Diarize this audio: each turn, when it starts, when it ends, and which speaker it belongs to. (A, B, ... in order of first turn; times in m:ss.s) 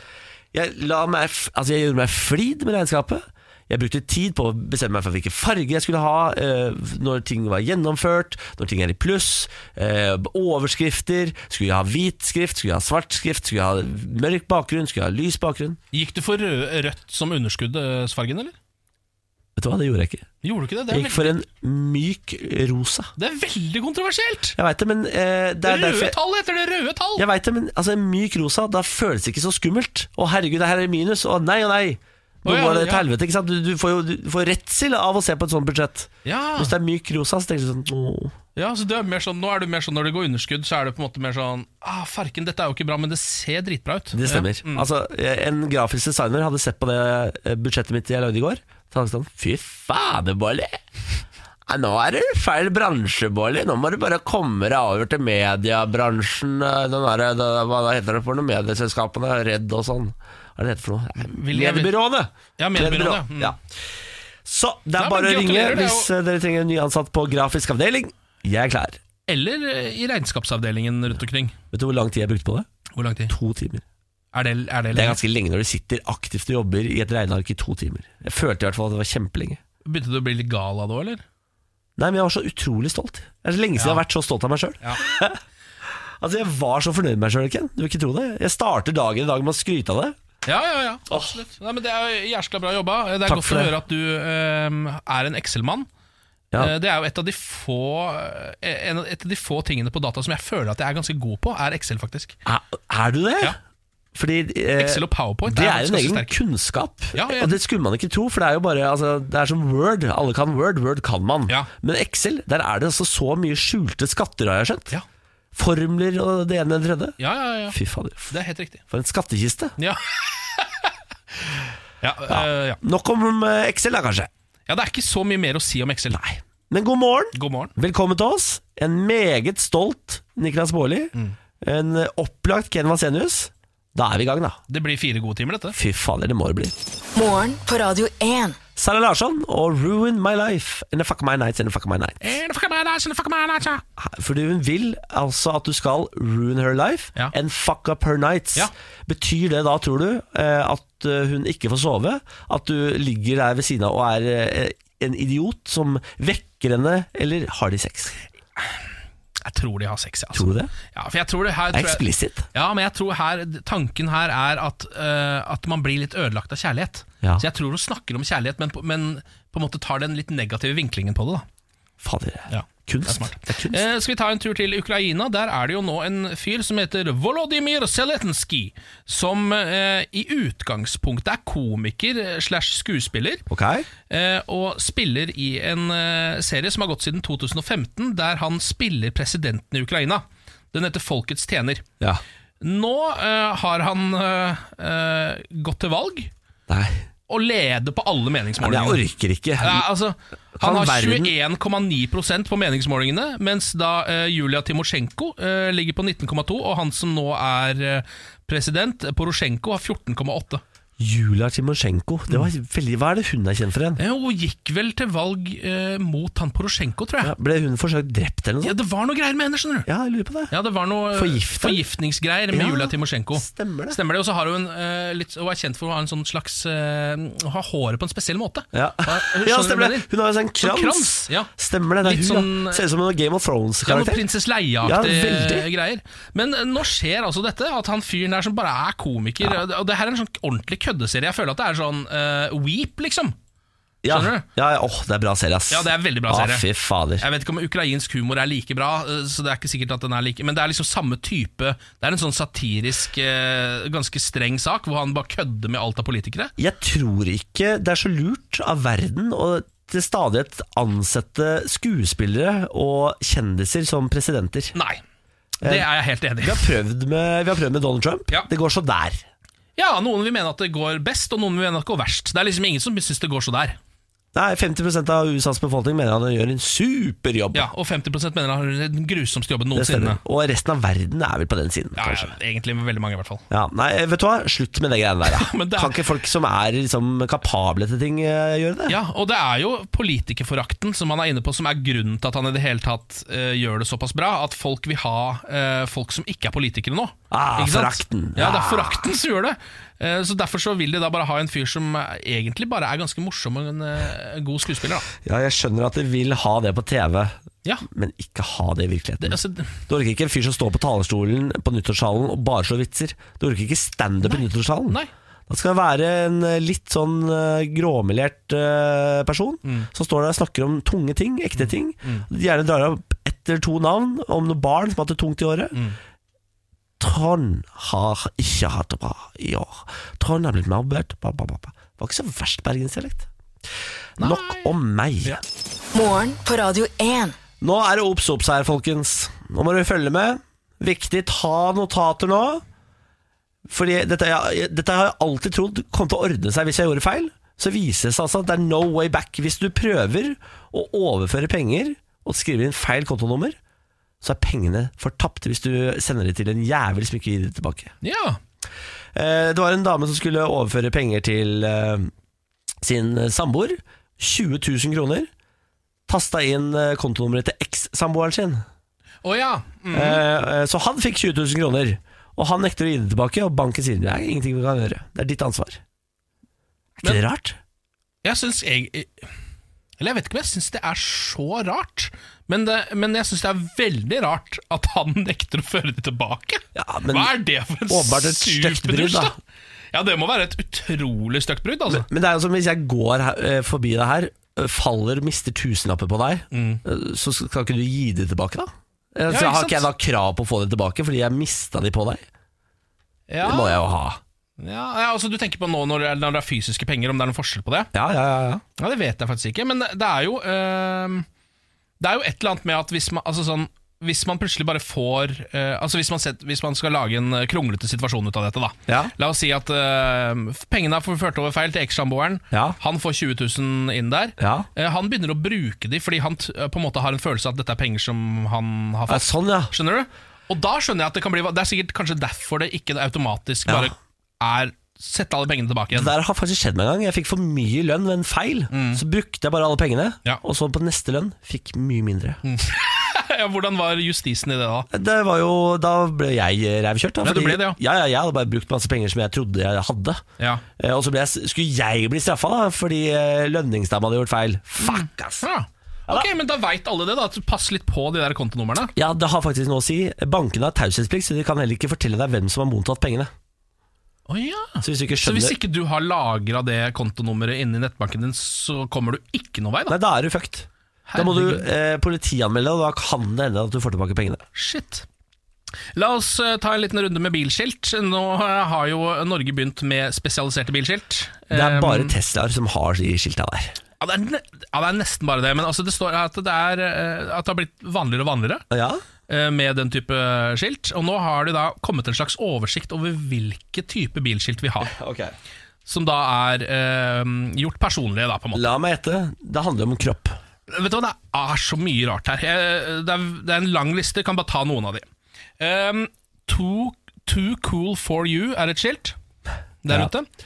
0:00.5-0:15.8 A
0:15.9-0:18.6 B
0:19.6-0:20.2 A
0:20.4-0:21.4 B
0:20.9-0:23.1 A
0:23.2-0:24.6 B
0:24.6-0:26.2 A
0:25.6-0:27.2 B
0:27.2-0:38.3 A
0:32.4-0:33.1 B
0:36.2-0:36.7 B
0:38.6-0:44.8 B
0:44.1-0:50.8 A
0:51.7-1:03.6 A
1:01.2-1:01.9 B
1:02.6-1:03.5 B
1:04.4-1:09.0 A
1:05.0-1:06.1 B
1:09.3-1:11.5 B
1:11.7-1:12.7 A
1:12.9-1:13.3 B
1:13.3-1:13.8 A
1:14.3-1:15.2 B
1:14.9-1:19.6 A
1:19.8-1:21.2 B
1:22.0-1:25.4 A
1:23.8-1:24.0 B
1:26.2-1:30.1 A
1:30.4-1:35.9 B
1:31.1-1:31.4 A
1:33.2-1:33.7 A
1:36.6-1:42.4 B
1:42.4-1:43.5 A
1:44.1-1:54.9 A
1:44.8-1:46.4 B
1:47.1-1:47.6 B
1:55.5-1:57.2 A
1:57.2-1:57.8 B
1:57.7-1:58.3 A
1:58.3-1:58.8 B
1:58.9-1:59.8 A
1:59.8-2:00.9 B
2:02.0-2:02.8 B
2:02.3-2:04.3 A
2:04.7-2:06.2 B
2:06.1-2:14.6 A
2:07.3-2:07.7 B
2:14.7-2:15.8 B
2:15.7-2:16.7 A
2:17.1-2:18.6 C
2:18.8-2:22.4 A
2:22.2-2:23.8 B
2:24.0-2:38.2 A
2:39.4-2:51.4 B
2:40.3-2:40.7 A
2:41.7-2:42.5 A
2:52.0-2:53.8 A
2:52.5-3:03.4 B
3:03.5-3:03.9 A
3:04.1-3:11.8 B
3:12.6-3:16.3 B
3:16.7-3:17.0 A
3:17.3-3:19.0 B
3:18.6-3:19.8 A
3:19.6-3:30.6 B
3:20.6-3:21.3 A
3:31.0-3:34.0 A
3:34.0-3:37.3 B
3:37.2-3:38.7 A
3:38.6-3:39.9 B
3:39.9-3:40.5 A
3:40.5-3:50.1 B
3:41.1-3:41.8 A
3:42.5-3:44.0 A
3:48.7-3:54.2 A
3:50.6-3:51.5 B
3:52.0-3:52.8 B
3:53.8-4:03.3 B
3:54.8-3:55.7 A
4:04.0-4:07.2 A
4:04.1-4:04.4 B
4:05.7-4:06.6 B
4:07.2-4:16.5 B
4:16.6-4:24.7 A
4:24.8-4:25.0 B
4:25.6-4:26.7 B
4:26.4-4:29.2 A
4:29.8-4:33.8 B
4:34.3-4:37.7 A
4:37.5-4:40.2 B
4:39.7-4:42.3 A
4:42.0-4:43.4 B
4:43.5-4:49.0 A
4:45.3-4:46.0 B
4:48.9-5:05.1 B
4:57.3-4:59.1 A
5:05.2-5:25.8 A
5:09.2-5:09.8 B
5:14.2-5:15.1 B
5:21.6-5:22.2 B
5:27.0-5:33.3 A
5:34.2-5:35.4 A
5:34.2-5:34.7 B
5:35.9-5:37.4 C
5:37.6-5:42.6 A
5:43.7-5:53.6 A
5:54.2-5:57.9 A
5:58.0-5:58.4 B
5:59.1-6:02.1 A
6:02.8-6:05.3 A
6:06.1-6:08.6 A
6:09.2-6:10.2 B
6:09.9-6:15.8 A
6:17.0-6:17.6 A
6:18.2-6:19.3 B
6:20.0-6:29.4 B
6:26.7-6:27.3 A
6:27.9-6:29.3 A
6:29.9-6:32.0 B
6:31.9-6:42.2 A
6:36.5-6:36.8 B
6:39.3-6:39.9 B
6:43.3-6:43.8 B
6:43.4-6:44.2 A
6:44.6-6:47.9 B
6:47.9-6:48.6 A
6:48.8-6:51.3 B
6:52.0-7:16.1 B
6:58.9-6:59.1 A
7:02.5-7:02.8 A
7:04.4-7:04.7 A
7:09.1-7:09.7 A
7:13.7-7:13.9 A
7:15.9-7:22.4 A
7:18.7-7:19.0 B
7:22.4-7:24.9 B
7:24.9-7:30.2 A
7:27.2-7:27.8 B
7:30.8-7:35.5 A
7:34.8-7:38.9 B
7:38.9-7:43.3 A
7:44.3-7:50.0 B
7:44.8-7:45.6 A
7:49.9-7:54.4 A
7:51.1-7:51.6 B
7:54.5-7:55.0 B
7:55.9-8:02.2 B
8:01.5-8:03.8 A
8:04.0-8:08.6 B
8:08.7-8:09.0 A
8:09.3-8:14.9 B
8:14.8-8:15.3 A
8:15.8-8:18.7 B
8:18.5-8:20.4 A
8:20.7-8:25.0 B
8:25.6-8:29.2 B
8:29.8-8:30.3 B